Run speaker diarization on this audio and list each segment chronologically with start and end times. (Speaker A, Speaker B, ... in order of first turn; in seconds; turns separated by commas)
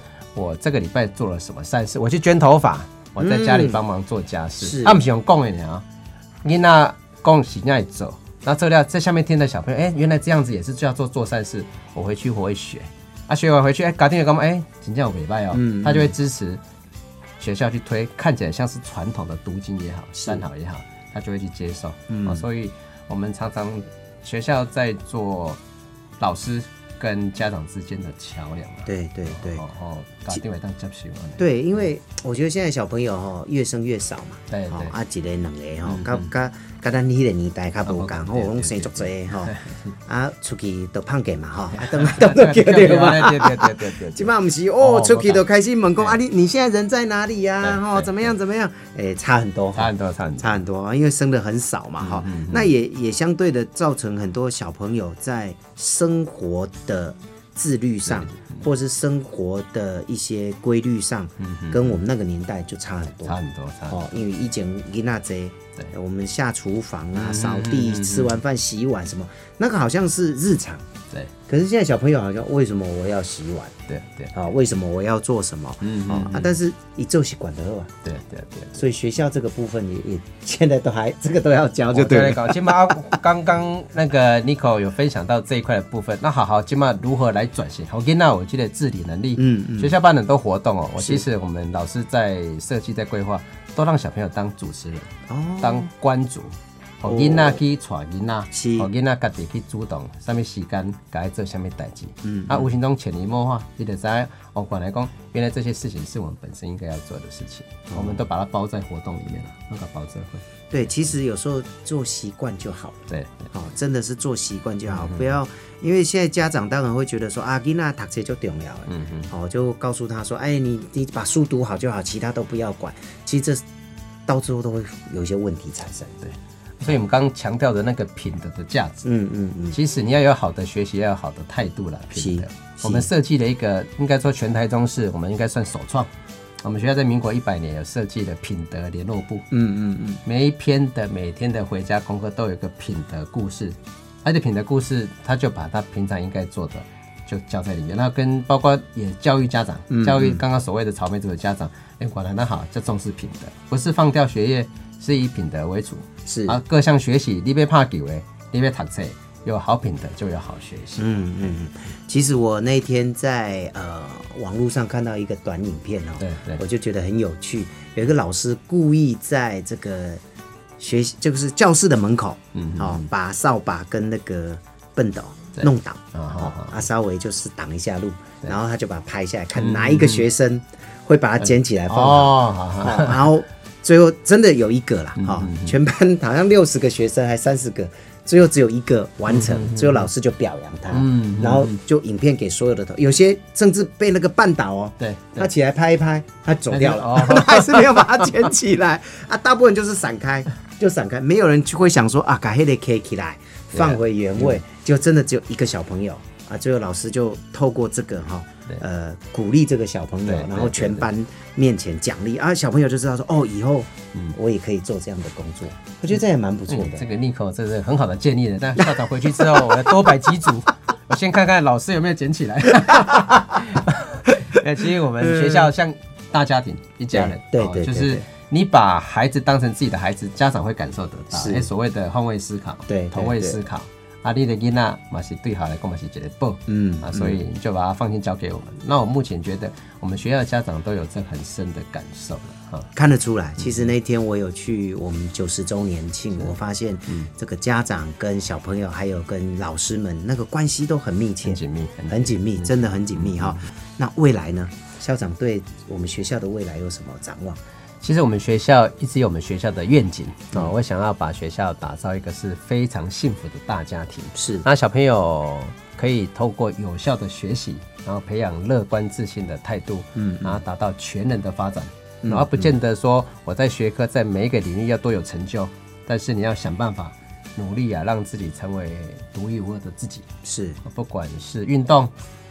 Speaker A: 0.3-5.8, Speaker B: 3.2-3.8, Speaker B: 4.6-5.0, Speaker A: 6.4-16.6, Speaker B: 15.5-16.1, Speaker A: 17.4-25.6, Speaker B: 20.2-20.4, Speaker B: 22.1-22.4, Speaker A: 26.2-31.8, Speaker B: 28.9-29.6, Speaker B: 31.4-39.5, Speaker A: 34.5-34.9, Speaker A: 35.9-36.3, Speaker A: 37.8-39.9, Speaker B: 40.0-70.8, Speaker A: 41.7-45.5, Speaker A: 47.6-48.3, Speaker A: 49.7-50.6, Speaker A: 52.0-52.7, Speaker A: 58.1-58.7, Speaker A: 61.4-62.0, Speaker A: 63.2-64.2, Speaker A: 67.1-68.3, Speaker B: 71.5-73.7, Speaker A: 73.9-74.4, Speaker B: 74.3-77.9, Speaker A: 75.8-76.5, Speaker A: 78.0-78.8, Speaker B: 78.7-83.2, Speaker A: 81.9-110.5, Speaker B: 89.4-90.0, Speaker B: 91.0-91.2, Speaker B: 95.3-95.9, Speaker B: 97.0-97.6, Speaker B: 98.5-98.9, Speaker B: 102.2-102.7, Speaker B: 107.9-108.2, Speaker B: 110.7-113.0, Speaker A: 113.1-113.5, Speaker B: 113.5-123.6, Speaker A: 114.9-115.3, Speaker A: 118.9-119.3, Speaker B: 124.2-126.2, Speaker A: 126.2-129.1, Speaker B: 129.0-129.8, Speaker A: 129.7-136.1, Speaker B: 132.1-133.1, Speaker A: 136.6-139.5, Speaker B: 139.5-140.2, Speaker A: 140.2-161.5, Speaker B: 149.9-150.4, Speaker B: 156.2-156.6, Speaker B: 161.0-170.2, Speaker A: 166.2-166.6, Speaker B: 170.8-217.1, Speaker A: 172.5-173.1, Speaker A: 175.6-176.8, Speaker A: 179.6-180.2, Speaker A: 181.4-183.3, Speaker A: 185.2-185.8, Speaker A: 189.3-190.1, Speaker A: 190.9-191.8, Speaker A: 195.0-195.5, Speaker A: 196.7-198.1, Speaker A: 203.7-204.6, Speaker A: 210.2-211.1, Speaker A: 216.7-242.9, Speaker B: 219.5-220.1, Speaker B: 225.2-225.7, Speaker B: 227.1-228.2, Speaker B: 231.3-231.7, Speaker B: 232.9-233.6, Speaker B: 236.7-237.4, Speaker B: 242.9-257.6, Speaker A: 243.6-243.9, Speaker A: 251.4-253.7, Speaker A: 258.0-280.3, Speaker B: 264.3-264.6, Speaker B: 270.1-270.6, Speaker B: 272.2-272.7, Speaker B: 280.4-280.8, Speaker A: 280.8-282.1